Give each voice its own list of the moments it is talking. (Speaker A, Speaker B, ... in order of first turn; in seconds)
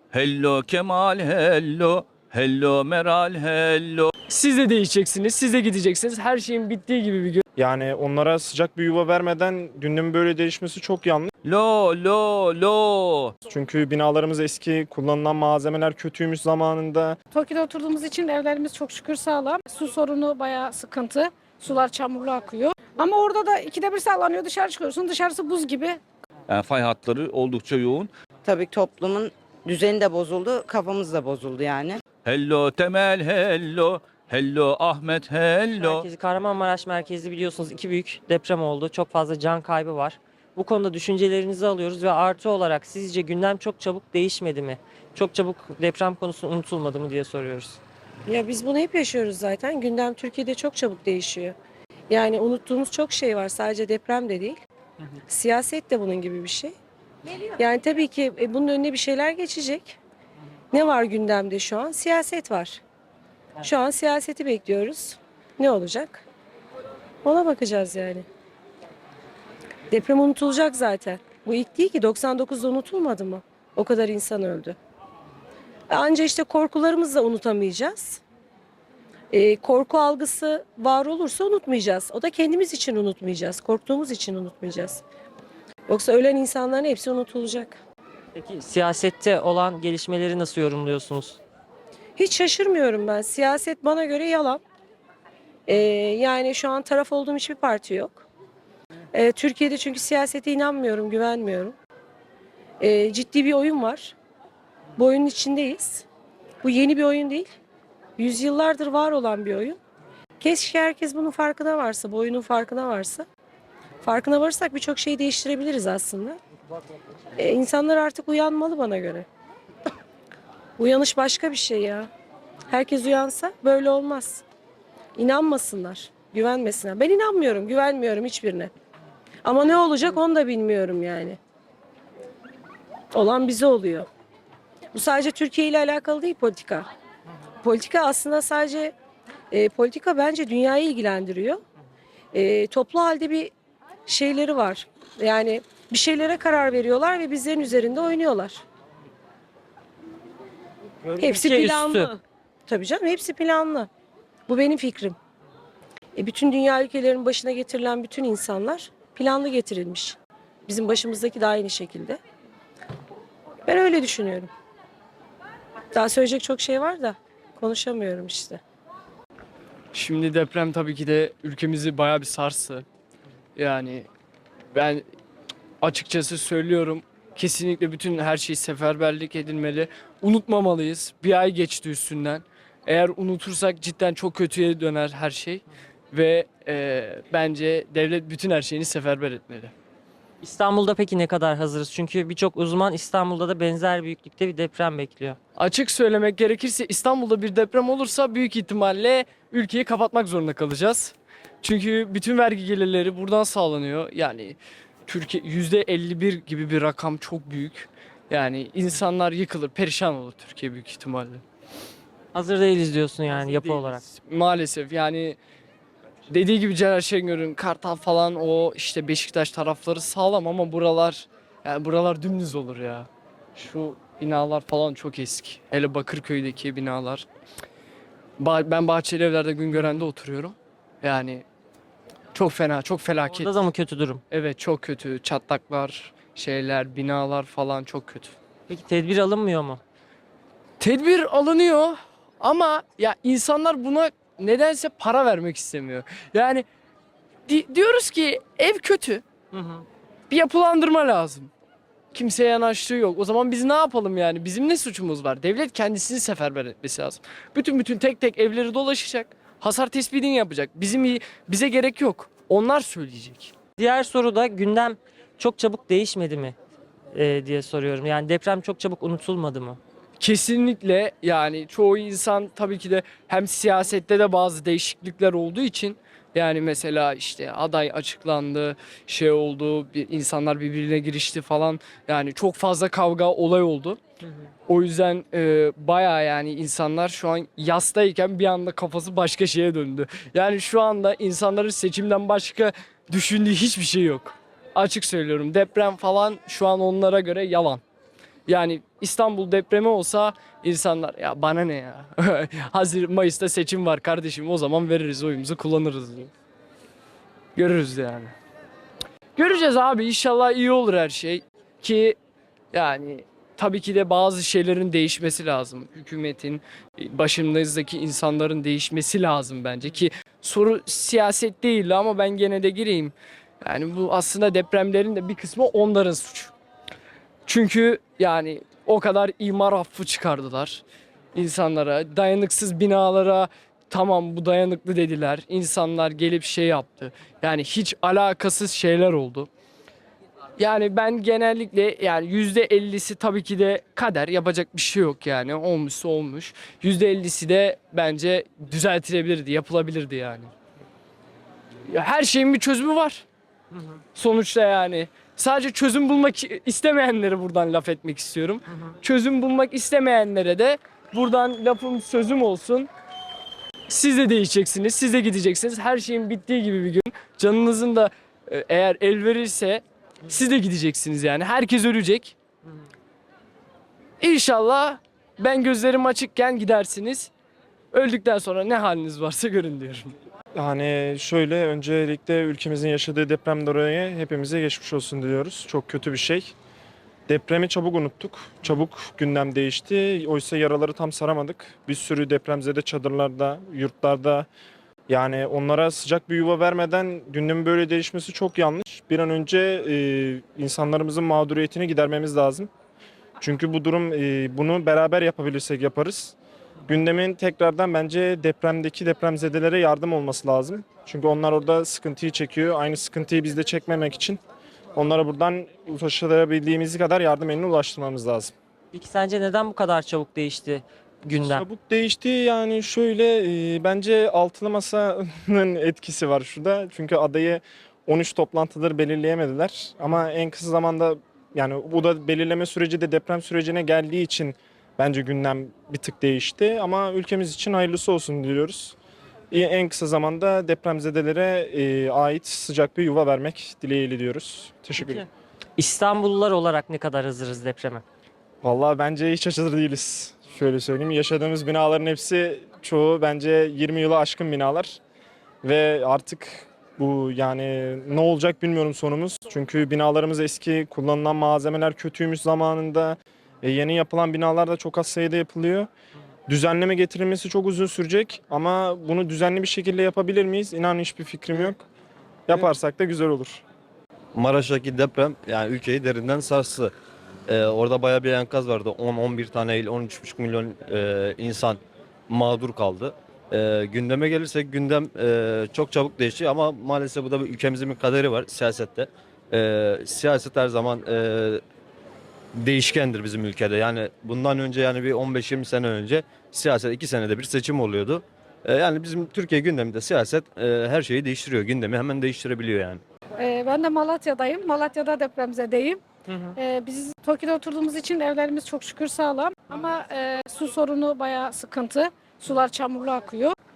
Speaker A: 0.1-4.1, 11.4-13.3, 26.5-28.1, 32.2-36.1
Speaker B: 4.3-7.4, 169.9-172.8, 173.6-174.1, 174.7-175.0, 175.8-189.7, 195.6-211.4, 213.3-215.4, 216.3-227.2, 228.4-231.4, 232.3-233.6, 234.3-238.3, 240.8-246.6, 247.5-249.2, 250.3-251.5, 252.1-263.5, 270.2-284.0, 284.7-297.8, 298.5-306.3, 307.6-308.3, 309.4-312.2, 312.7-326.5, 327.4-330.8, 331.3-339.5, 340.6-350.5, 351.9-353.2, 354.1-362.9, 363.9-372.3, 374.2-377.3, 377.9-380.1
Speaker C: 7.6-11.3, 13.5-17.2, 380.5-386.5, 387.3-394.5, 395.1-402.7, 403.4-406.4, 406.9-414.4, 414.9-418.5, 421.4-438.9, 439.5-445.2, 448.6-455.0, 455.6-465.9, 466.5-471.8, 472.5-473.6
Speaker D: 17.3-26.0, 503.4-506.0, 506.6-513.6
Speaker E: 28.4-32.0
Speaker F: 35.8-47.8, 88.3-91.4, 151.1-152.1, 190.4-195.4, 212.3-214.0, 233.3-234.2, 238.7-239.8, 263.8-266.6, 267.1-269.8, 418.9-421.6, 445.8-448.0, 506.3-506.5
Speaker G: 48.3-51.5, 52.1-54.6, 55.3-56.8, 57.6-60.0, 60.7-62.8, 63.6-66.2, 67.2-68.2, 69.9-74.8, 75.9-78.2, 79.3-85.0, 85.9-87.8, 92.2-94.6, 95.7-98.2, 99.1-101.8, 102.8-104.2, 105.0-106.0, 106.6-107.5, 108.2-109.8, 110.4-113.2, 114.0-116.4, 117.4-119.3, 120.8-122.1, 122.7-124.4, 125.2-128.7, 129.4-131.4, 133.1-134.1, 134.9-136.9, 137.6-138.9, 139.5-141.6, 142.3-143.5, 144.1-148.6, 151.2-152.1, 152.7-153.9, 154.5-155.2, 156.2-162.2, 163.7-164.5, 165.9-168.6
Speaker H: 474.3-476.9, 477.5-491.6, 492.5-503.0